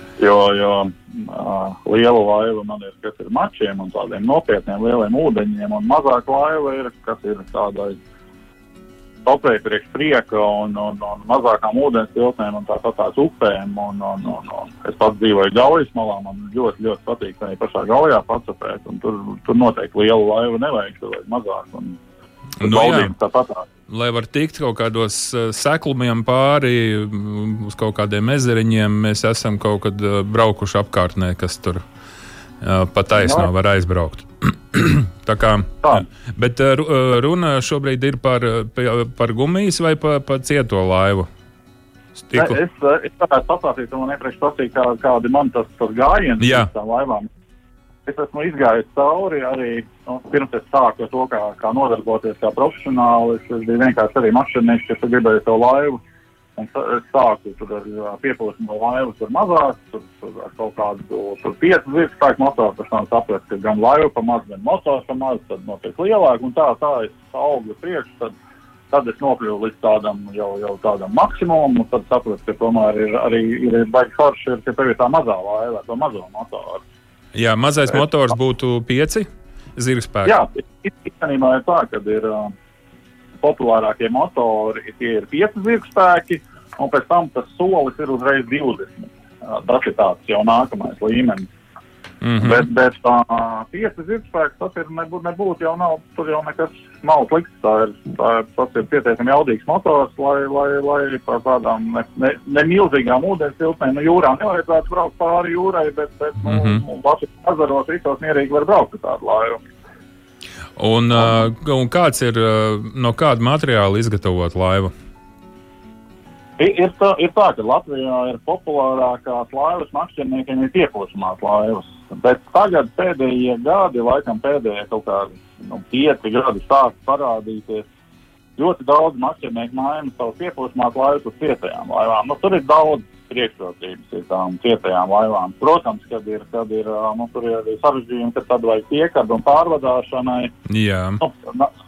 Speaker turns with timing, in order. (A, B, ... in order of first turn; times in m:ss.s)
0:00.2-0:08.0 A
0:09.3-0:22.0 A
0:22.6-0:23.1 B
0:22.6-0:23.6 A
0:23.9-0:31.8 B
0:32.6-0:41.3 B
0:33.2-0:33.5 A
0:42.2-0:42.6 B
0:42.3-0:47.3 A
0:46.4-0:46.7 B
0:48.1-0:56.0 A
0:56.6-1:08.3 A
1:08.9-1:16.8 A
1:17.3-1:20.4 B
1:20.2-1:22.5 A
1:23.4-1:31.5 A
1:32.2-1:32.7 B
1:32.4-1:49.6 A
1:46.4-1:46.8 B
1:50.8-1:54.9 B
1:56.6-2:07.8 A
2:08.6-2:20.5 A
2:20.7-2:21.2 B
2:21.2-2:21.7 A